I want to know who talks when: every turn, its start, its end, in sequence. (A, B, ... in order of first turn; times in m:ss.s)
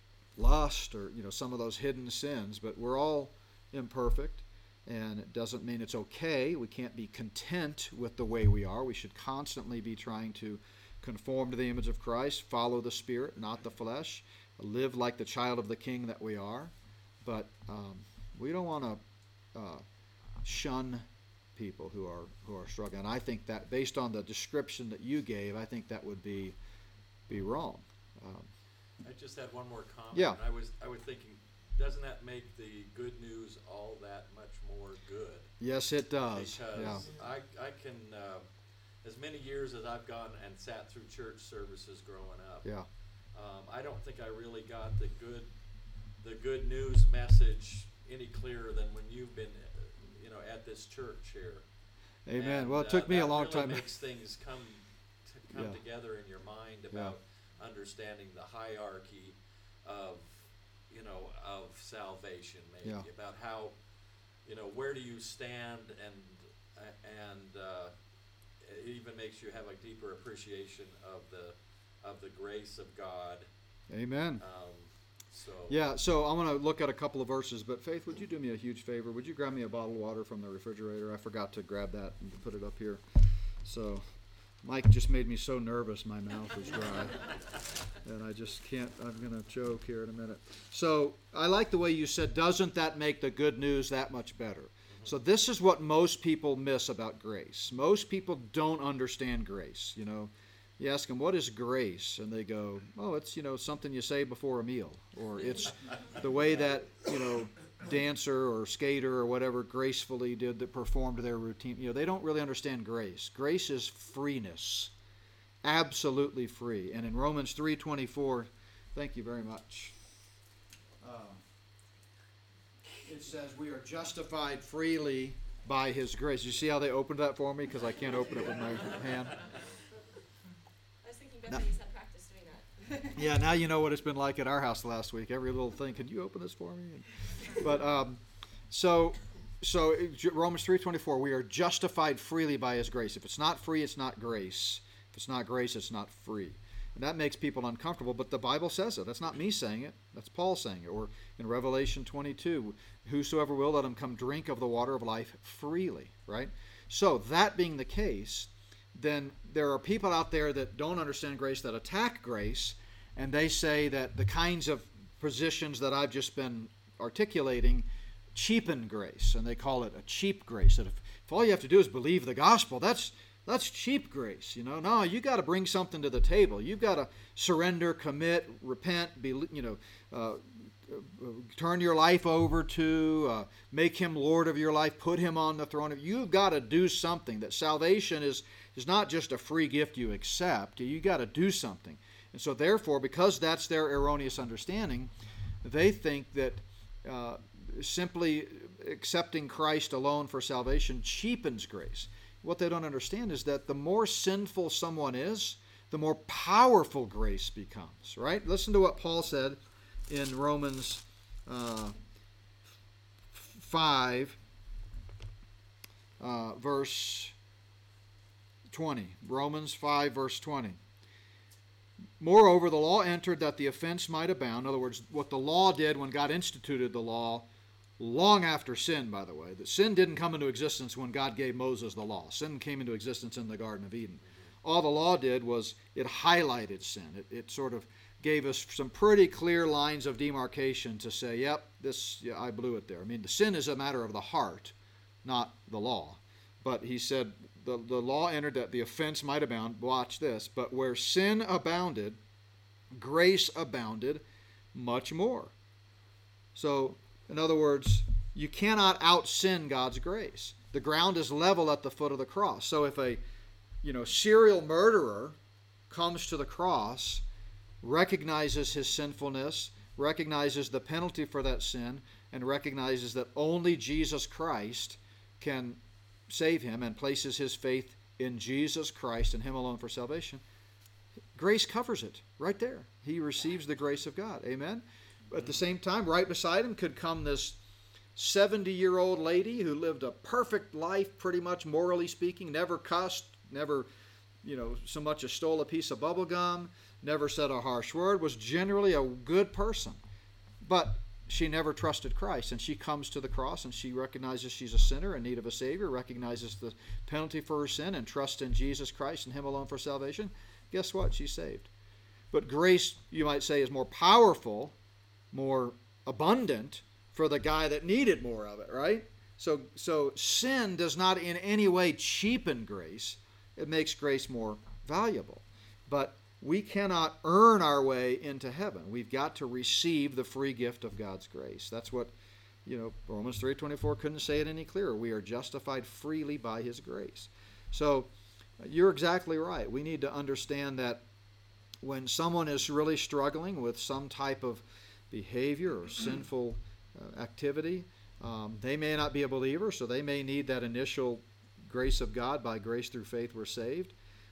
0:00.4-0:19.0 A
0:19.5-0:19.8 A
0:20.4-0:26.6 A
0:27.3-0:28.5 A
0:29.0-0:35.5 B
0:30.1-0:30.4 A
0:35.6-0:37.1 A
0:36.3-0:38.4 B
0:39.0-0:42.7 B
0:43.3-0:45.5 B
0:46.2-0:51.6 B
0:52.2-0:53.9 A
0:52.3-1:03.8 B
0:55.5-0:55.8 A
1:04.4-1:07.9 B
1:08.6-1:13.5 B
1:13.9-1:14.4 A
1:14.4-1:15.8 B
1:15.7-1:23.0 A
1:23.6-1:24.1 A
1:24.6-1:27.4 A
1:28.0-1:54.9 A
1:55.6-2:00.0 A
2:01.0-2:01.4 A
2:03.0-2:09.4 A
2:11.0-2:13.2 C
2:13.1-3:15.1 A
3:15.6-3:32.0 A
3:33.3-3:34.4 A
3:36.2-3:37.3 A
3:38.7-3:40.8 A
3:42.2-3:47.5 A
3:48.0-4:12.2 A
4:12.9-4:15.5 A
4:16.5-4:23.2 A
4:23.8-4:25.4 A
4:25.9-4:27.2 A
4:27.8-4:40.4 A
4:41.3-4:47.6 A
4:48.2-4:53.9 A
4:54.4-5:00.0 A
5:00.6-5:11.7 A
5:12.3-5:14.7 A
5:15.3-5:32.1 A
5:32.6-5:41.0 A
5:41.8-5:53.9 A